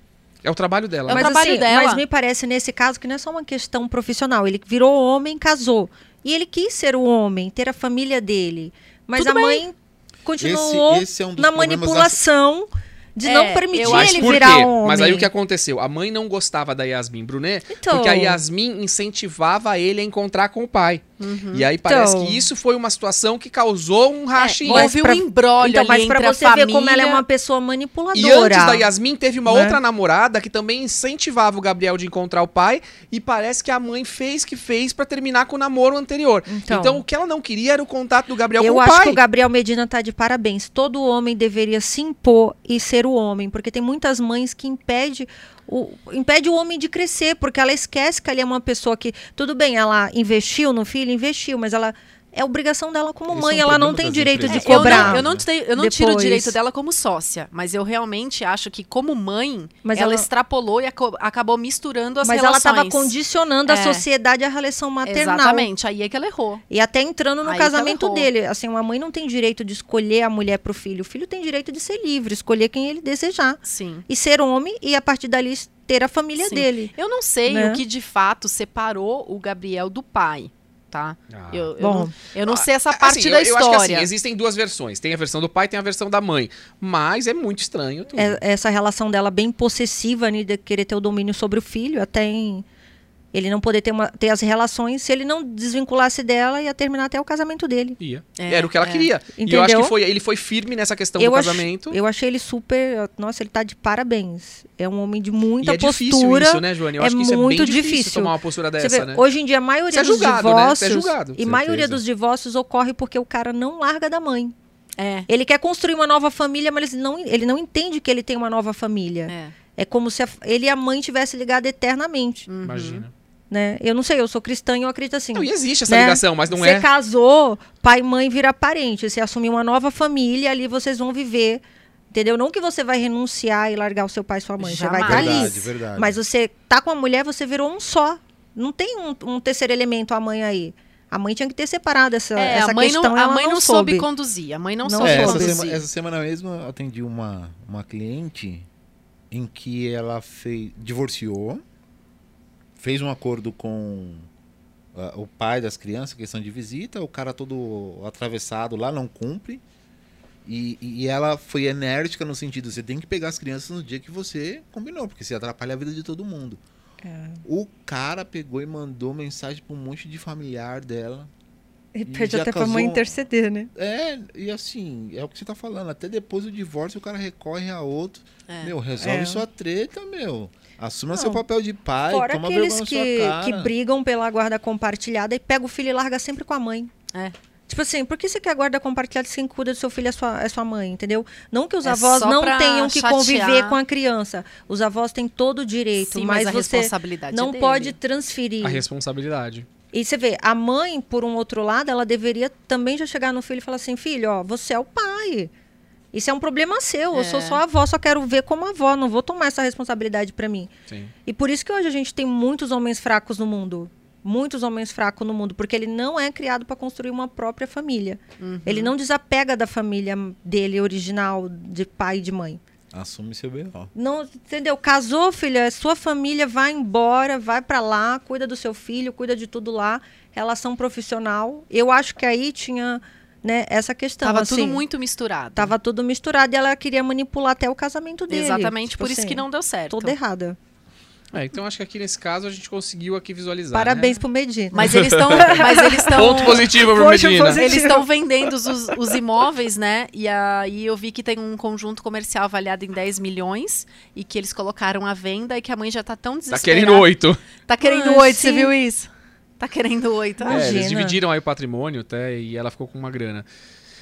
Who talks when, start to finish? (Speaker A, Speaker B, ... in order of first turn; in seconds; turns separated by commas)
Speaker A: 0.4-1.3, Speaker B: 1.1-2.0, Speaker C: 1.1-15.3, Speaker B: 9.2-9.6, Speaker D: 10.4-12.2, Speaker B: 13.2-14.7, Speaker A: 13.8-24.9, Speaker C: 17.7-18.4, Speaker B: 21.2-21.7, Speaker C: 21.8-22.4, Speaker B: 24.4-27.2, Speaker C: 24.7-28.9, Speaker A: 28.1-39.2, Speaker C: 29.5-29.8, Speaker C: 36.5-37.0, Speaker C: 38.6-56.6, Speaker D: 53.3-55.5, Speaker A: 54.4-54.9, Speaker B: 54.5-63.1, Speaker C: 59.8-60.3, Speaker C: 62.2-65.7, Speaker B: 63.6-64.0, Speaker B: 65.0-66.6, Speaker C: 66.7-76.9, Speaker B: 67.4-68.3, Speaker B: 73.6-74.0, Speaker B: 76.4-84.1, Speaker C: 77.5-77.8, Speaker A: 81.3-81.7, Speaker C: 81.8-82.1, Speaker A: 82.5-88.4, Speaker C: 88.1-92.6, Speaker C: 93.3-98.0, Speaker A: 98.0-102.0, Speaker B: 98.4-99.1, Speaker C: 99.3-99.9, Speaker C: 101.2-114.5, Speaker A: 105.6-109.2, Speaker A: 109.9-111.5, Speaker D: 111.4-112.0, Speaker B: 115.0-115.3, Speaker C: 115.3-122.5, Speaker B: 119.3-119.5, Speaker B: 122.5-123.0, Speaker A: 122.6-123.1, Speaker C: 123.5-144.1, Speaker A: 125.3-126.9, Speaker B: 134.6-135.5, Speaker D: 135.0-136.2, Speaker B: 142.3-145.8, Speaker C: 144.8-145.6, Speaker D: 145.0-148.7, Speaker D: 149.3-151.6, Speaker D: 152.8-154.3, Speaker D: 154.9-159.6, Speaker D: 160.4-166.6, Speaker C: 167.0-167.4, Speaker D: 167.4-171.3, Speaker C: 171.9-173.7, Speaker D: 172.1-173.2, Speaker D: 173.7-183.7, Speaker B: 178.5-178.7, Speaker C: 179.0-179.4, Speaker C: 181.1-181.4, Speaker C: 182.1-186.9, Speaker C: 187.7-198.8, Speaker B: 191.8-193.8, Speaker B: 196.0-197.9, Speaker A: 198.6-199.7, Speaker C: 199.9-205.5, Speaker C: 206.1-210.7, Speaker B: 207.1-207.6, Speaker C: 211.2-222.6, Speaker B: 218.4-218.9, Speaker D: 222.9-223.9, Speaker C: 223.9-234.8, Speaker B: 234.2-235.7, Speaker C: 235.5-240.6, Speaker B: 238.3-240.2, Speaker A: 241.3-244.2, Speaker C: 243.7-248.0, Speaker B: 244.7-246.7, Speaker A: 244.8-247.8, Speaker B: 247.5-257.1, Speaker A: 256.5-257.4, Speaker B: 257.6-260.8, Speaker C: 257.8-258.7, Speaker C: 260.4-261.2, Speaker A: 260.5-263.4